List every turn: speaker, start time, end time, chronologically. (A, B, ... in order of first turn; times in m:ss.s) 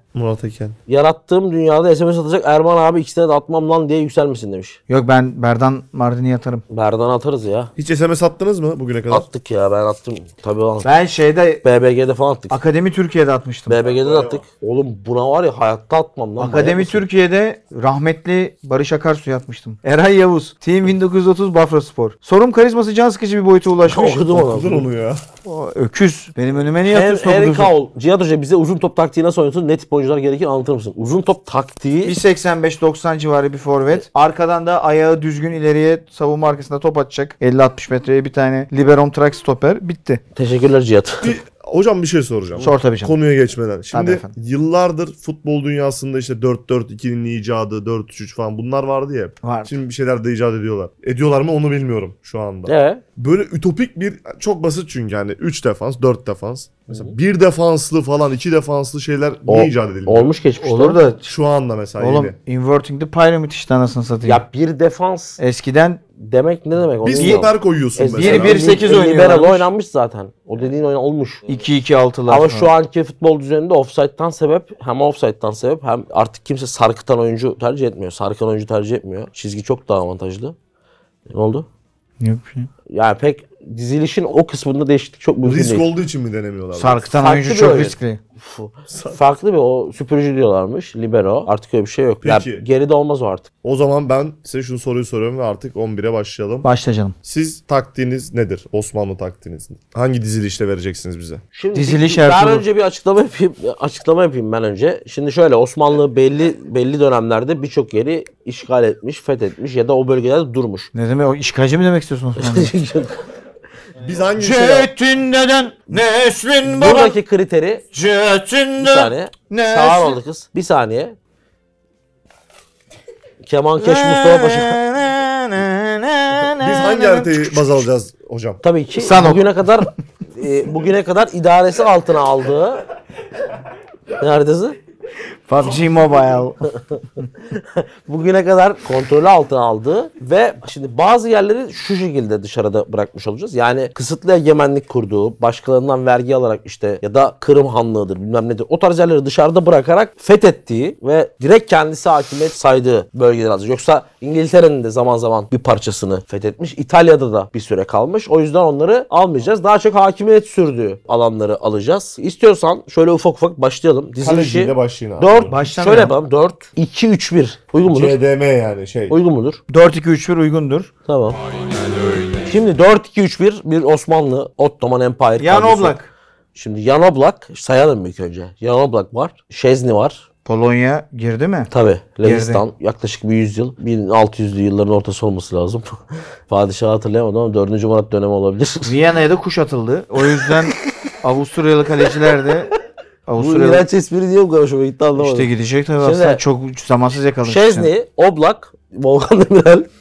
0:00.1-0:00.8 A
0:00.9-0:04.8 B
0:04.9-0:06.6 C
0:06.7-0:07.7 B
0:07.8-0:09.3 A
0:09.1-0:10.9 B
0:10.8-0:11.6 C
0:11.6-0:12.6 B
0:12.5-0:13.8 C
0:13.7-0:17.0 B
0:13.9-0:14.4 A
0:16.4-0:24.4 C
0:23.8-0:24.8 B
0:24.3-0:25.2 A
0:25.4-0:27.7 C
0:26.9-0:32.2 B
0:32.0-0:40.2 C
0:40.4-0:41.4 B
0:41.2-1:00.3 A
0:42.6-0:43.2 C
0:43.9-0:44.3 C
0:49.4-0:49.8 C
0:52.7-0:53.0 B
0:59.5-1:01.0 B
1:00.6-1:01.3 C
1:01.2-1:02.4 A
1:02.0-1:04.4 C
1:04.2-1:05.4 B
1:05.4-1:06.0 C
1:06.2-1:11.4 B
1:07.0-1:08.8 A
1:07.2-1:07.4 C
1:08.2-1:09.7 C
1:11.5-1:12.7 C
1:12.3-1:20.6 B
1:21.3-1:21.7 B
1:22.2-1:22.7 C
1:22.9-1:25.9 B
1:25.4-1:27.1 A
1:26.8-1:28.2 C
1:27.2-1:33.5 B
1:28.9-1:29.2 A
1:32.2-1:32.6 A
1:33.6-1:36.7 A
1:36.6-1:37.2 C
1:37.2-1:41.4 A
1:41.5-1:50.9 B
1:41.7-1:42.6 C
1:50.9-1:52.7 C
1:52.4-1:53.2 B
1:54.0-1:54.9 A
1:54.4-1:57.2 C
1:56.6-1:57.8 B
1:57.9-2:00.2 C
1:58.8-2:01.2 B
2:03.4-2:04.8 B
2:03.8-2:07.8 C
2:06.6-2:08.6 A
2:08.6-2:12.8 B
2:09.0-2:09.7 C
2:14.2-2:14.8 B
2:15.5-2:16.6 C
2:17.5-2:48.2 B
2:44.2-2:45.6 A
2:45.5-2:46.1 C
2:47.9-2:49.2 A
2:49.1-2:49.6 B
2:49.7-2:50.9 C
2:51.1-2:51.4 B
2:52.4-2:56.0 B
2:55.4-2:56.1 C
2:56.6-3:00.2 B
3:00.5-3:01.7 C
3:01.7-3:06.0 B
3:02.2-3:02.6 C
3:06.5-3:09.0 B
3:08.8-3:12.7 C
3:13.3-3:13.9 C
3:13.4-3:16.4 B
3:15.2-3:17.9 C
3:17.4-3:19.9 B